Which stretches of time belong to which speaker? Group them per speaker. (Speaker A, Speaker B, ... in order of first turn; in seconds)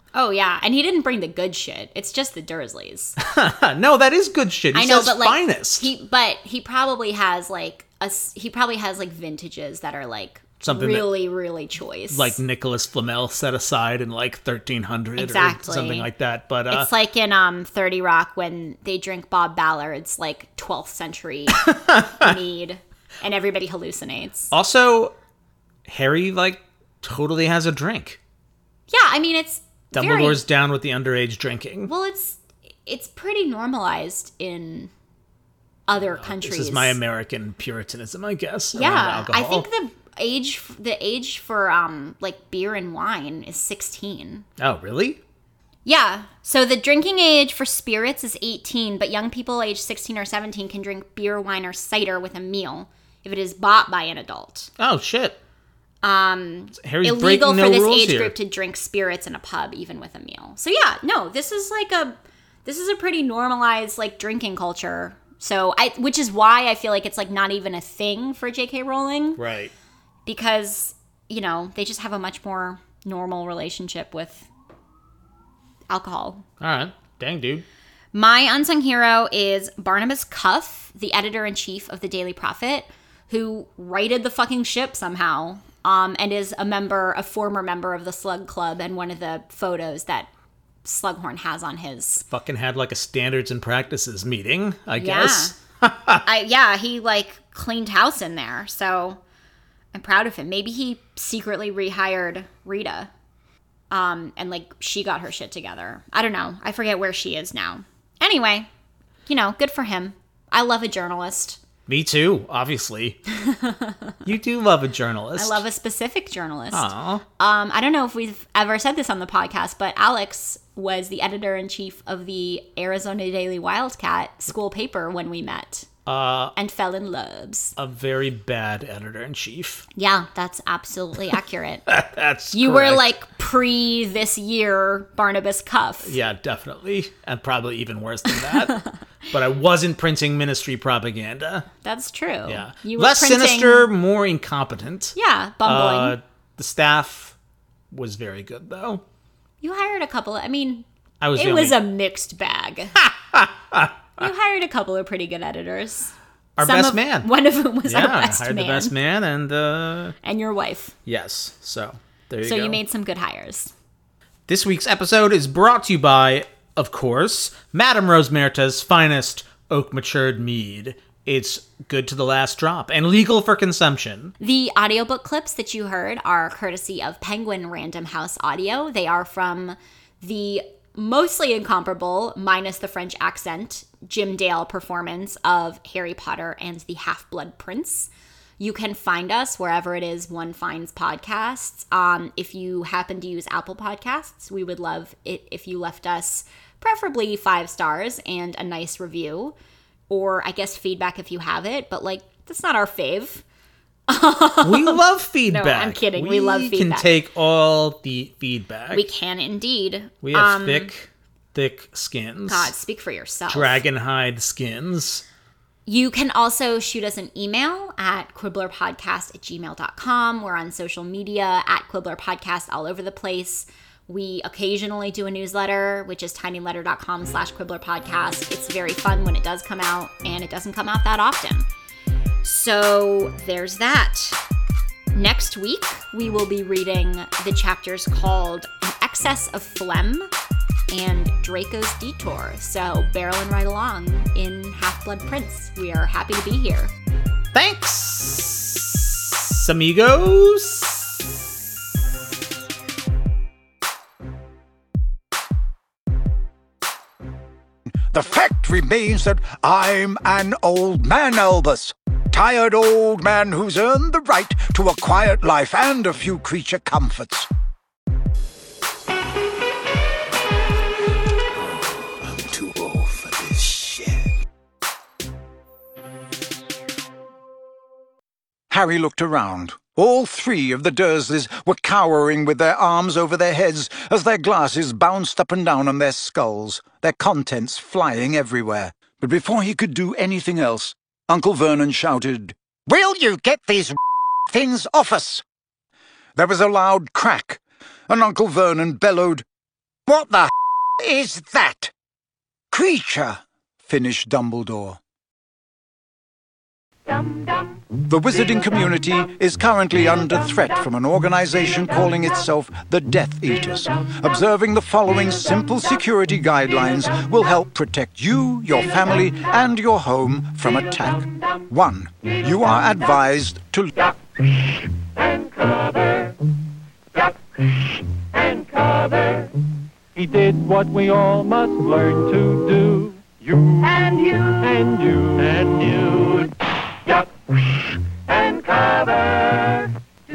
Speaker A: 0.1-3.2, 4.7-12.4, 15.2-16.1, 16.7-24.5, 28.9-30.4, 31.9-34.9, 35.9-37.0, 38.7-44.5, 45.9-54.7, 56.0-69.4, 70.3-74.5, 75.9-76.5, 78.1-90.3, 90.8-92.2, 95.0-95.6, 96.2-99.2, 99.9-103.1, 103.9-108.7, 109.3-111.6, 113.3-114.2, 115.4-125.9, 126.6-127.7, 130.0-131.8, 132.5-136.2, 138.3-139.0, 141.8-143.9, 145.2-146.2, 149.6-150.8, 151.4-153.0, 154.2-158.9, 160.2-160.9, 162.4-163.7, 174.4-199.6, 200.1-203.4, 204.1-207.1, 208.9-210.9, 212.5-213.8, 215.9-231.7, 232.4-234.4, 235.1-240.3, 240.9-246.9
Speaker B: 3.2-5.9, 10.6-11.1, 12.1-16.9, 21.6-22.3, 24.5-25.1, 25.9-28.2, 29.9-31.9, 36.1-39.7, 44.6-45.2, 54.8-55.4, 56.8-58.3, 69.4-69.7, 76.6-77.7, 92.3-96.2, 111.9-113.2, 114.2-115.6, 116.7-117.2, 126.1-126.5, 127.8-129.9, 131.9-133.0, 136.0-141.7, 142.5-147.3, 147.9-149.0, 151.2-151.8, 153.0-154.3, 156.6-157.3, 157.9-160.2, 161.1-162.8, 164.5-174.3, 204.6-209.0, 210.2-212.7, 213.5-215.2, 247.5-251.1
Speaker C: 258.1-267.5, 271.7-274.4, 278.7-295.4, 296.4-299.4, 300.1-301.9, 302.7-305.0, 308.1-323.9
Speaker D: 325.2-326.4, 328.4-329.5, 330.1-339.9